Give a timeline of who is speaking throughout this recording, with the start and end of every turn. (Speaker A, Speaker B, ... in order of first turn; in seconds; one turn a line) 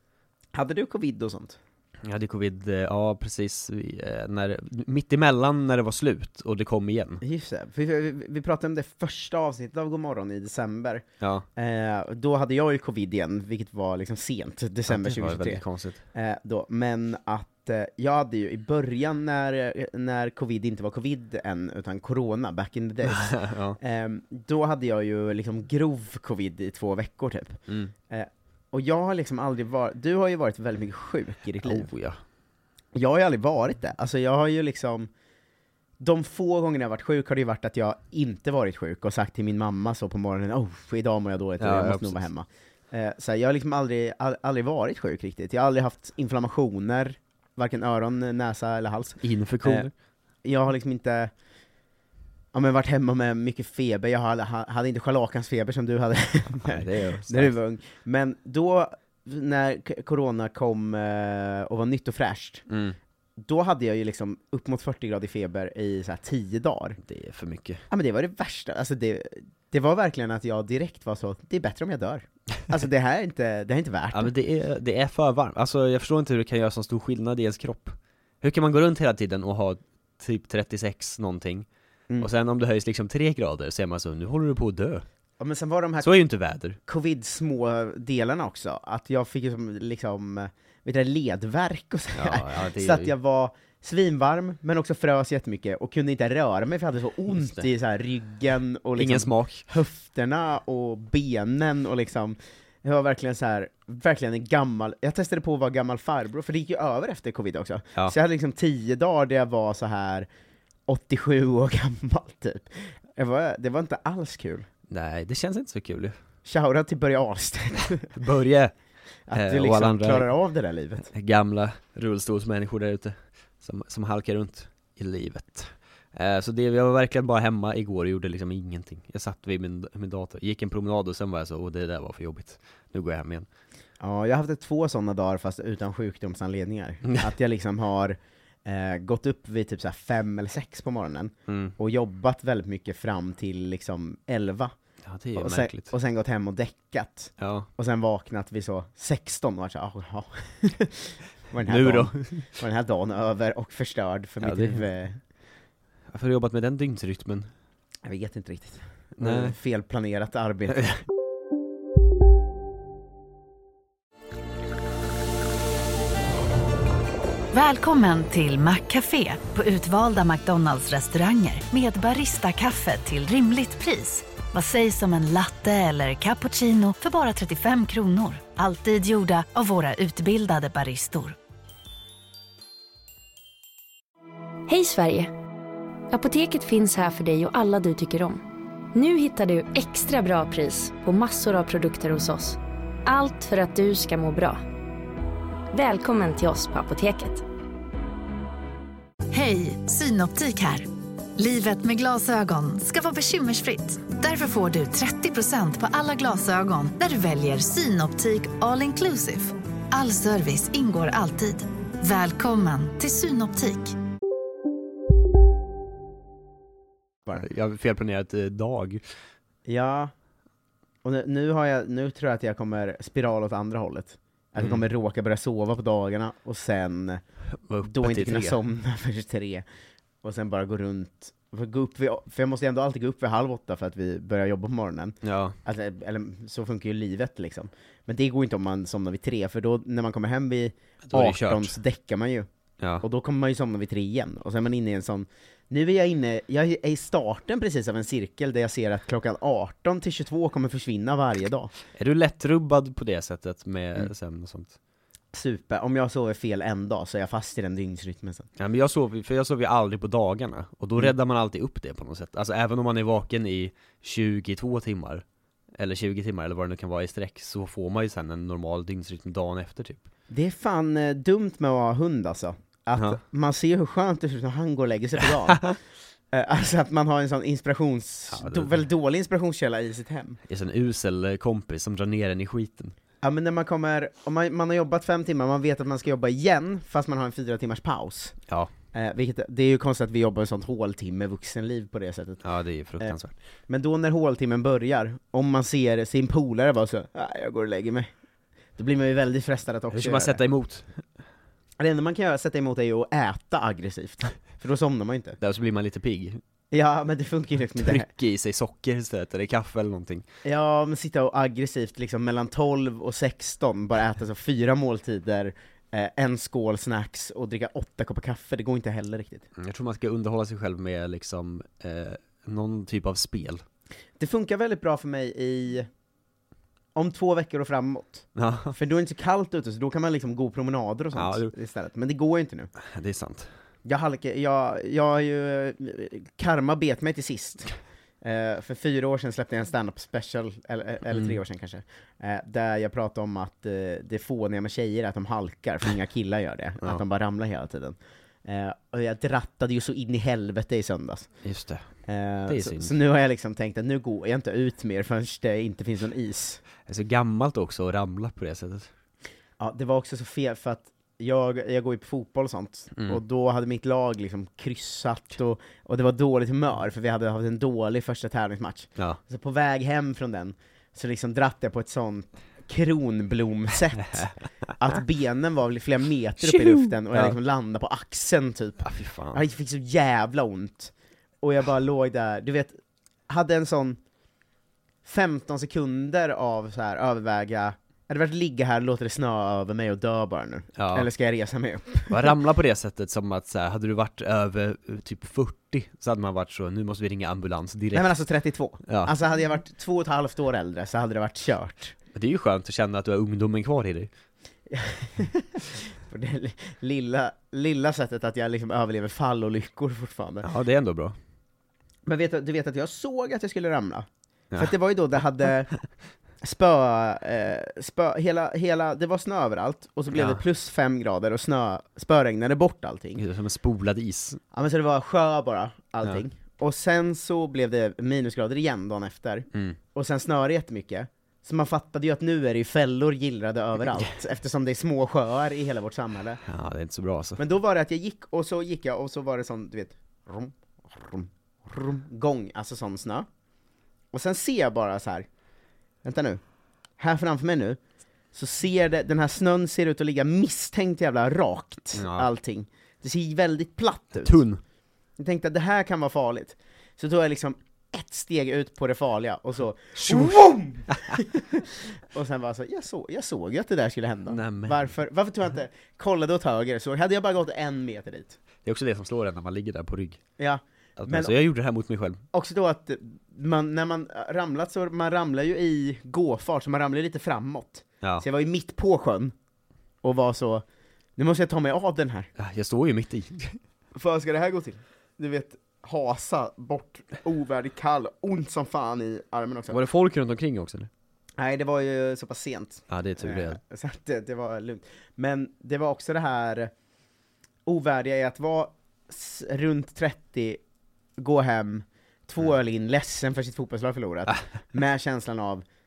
Speaker A: 0.5-1.6
Speaker B: 2.0-7.2
Speaker A: 7.2-11.0
Speaker A: 11.6-31.9
Speaker B: 14.9-16.0
Speaker B: 23.1-23.8
Speaker B: 27.7-27.9
Speaker B: 31.6-32.2
Speaker A: 32.9-35.1
Speaker A: 36.0-49.9
Speaker B: 41.6-42.2
Speaker B: 49.2-49.9
Speaker A: 50.4-51.3
Speaker A: 52.5-62.6
Speaker B: 56.6-57.5
Speaker B: 62.7-63.0
Speaker A: 63.4-67.0
Speaker B: 67.0-67.8
Speaker A: 67.9-74.3
Speaker B: 74.1-81.7
Speaker B: 82.2-85.0
Speaker A: 85.4-86.2
Speaker B: 86.0-86.8
Speaker A: 86.8-110.3
Speaker B: 92.1-93.1
Speaker B: 97.3-97.7
Speaker B: 99.0-99.7
Speaker A: 110.9-114.7
Speaker B: 114.9-116.2
Speaker A: 116.4-118.1
Speaker B: 118.1-118.7
Speaker A: 119.3-121.1
Speaker B: 119.3-120.3
Speaker B: 121.1-133.5
Speaker A: 134.0-144.7
Speaker B: 141.5-141.7
Speaker B: 145.0-145.9
Speaker A: 145.3-155.2
Speaker B: 147.4-147.7
Speaker B: 151.7-152.5
Speaker B: 154.4-154.8
Speaker B: 156.1-157.5
Speaker A: 158.0-160.9
Speaker B: 159.2-159.5
Speaker C: 167.5-181.4
Speaker D: 184.7-185.3
Speaker D: 186.1-188.4
Speaker D: 188.9-194.6
Speaker D: 195.7-197.4
Speaker C: 199.3-213.9
Speaker B: 217.3-219.0
Speaker A: 219.7-220.1
Speaker A: 221.0-227.2
Speaker B: 224.6-224.8
Speaker B: 227.7-228.6
Speaker A: 227.8-229.6
Speaker A: 230.2-242.5
Speaker B: 235.2-235.6
Speaker B: 241.0-241.8
Speaker B: 242.8-243.0
Speaker A: 243.0-251.7
Speaker B: 251.9-254.7
Speaker A: 255.3-258.5
Speaker B: 258.6-265.2
Speaker B: 265.8-270.0
Speaker A: 270.3-275.7
Speaker B: 275.2-275.8
Speaker A: 276.3-280.4
Speaker B: 278.3-278.8
Speaker B: 280.5-282.9
Speaker A: 283.2-288.4
Speaker A: 288.9-292.4
Speaker B: 292.4-293.3
Speaker A: 293.7-298.1
Speaker A: 298.8-300.4
Speaker B: 299.9-301.0
Speaker A: 301.8-305.4
Speaker B: 305.4-306.4
Speaker A: 306.7-308.1
Speaker B: 307.8-310.2
Speaker A: 310.4-319.5
Speaker B: 319.6-323.6
Speaker A: 324.2-325.9
Speaker A: 326.9-332.7
Speaker B: 328.3-328.8
Speaker B: 331.1-331.5
Speaker B: 332.8-333.5
Speaker A: 333.8-351.3
Speaker B: 341.1-341.4
Speaker B: 351.4-351.9
Speaker A: 352.1-356.6
Speaker B: 352.5-352.9
Speaker B: 356.9-358.9
Speaker A: 359.6-382.8
Speaker B: 376.4-377.4
Speaker B: 378.8-379.4
Speaker A: 383.3-384.0
Speaker A: 385.0-392.3
Speaker B: 390.8-391.1
Speaker B: 392.1-398.2
Speaker A: 397.9-401.9
Speaker B: 398.9-399.1
Speaker B: 402.1-404.1
Speaker A: 404.7-410.5
Speaker B: 410.4-411.1
Speaker A: 412.1-415.7
Speaker A: 416.4-423.2
Speaker B: 420.1-420.4
Speaker B: 423.2-424.4
Speaker A: 424.5-436.4
Speaker B: 436.4-437.4
Speaker A: 437.4-443.3
Speaker A: 444.1-445.3
Speaker A: 446.0-446.4
Speaker A: 447.0-447.8
Speaker A: 448.3-454.4
Speaker B: 451.9-452.3
Speaker B: 454.2-454.6
Speaker A: 455.2-468.4
Speaker B: 459.9-461.2
Speaker B: 464.3-464.9
Speaker B: 468.6-470.2
Speaker A: 470.4-471.4
Speaker B: 471.0-472.2
Speaker A: 472.3-479.3
Speaker A: 480.0-480.6
Speaker A: 481.2-482.3
Speaker B: 482.4-483.6
Speaker A: 483.9-489.8
Speaker B: 489.7-490.9
Speaker A: 491.4-496.7
Speaker B: 492.9-493.6
Speaker A: 497.6-500.6
Speaker A: 501.2-505.6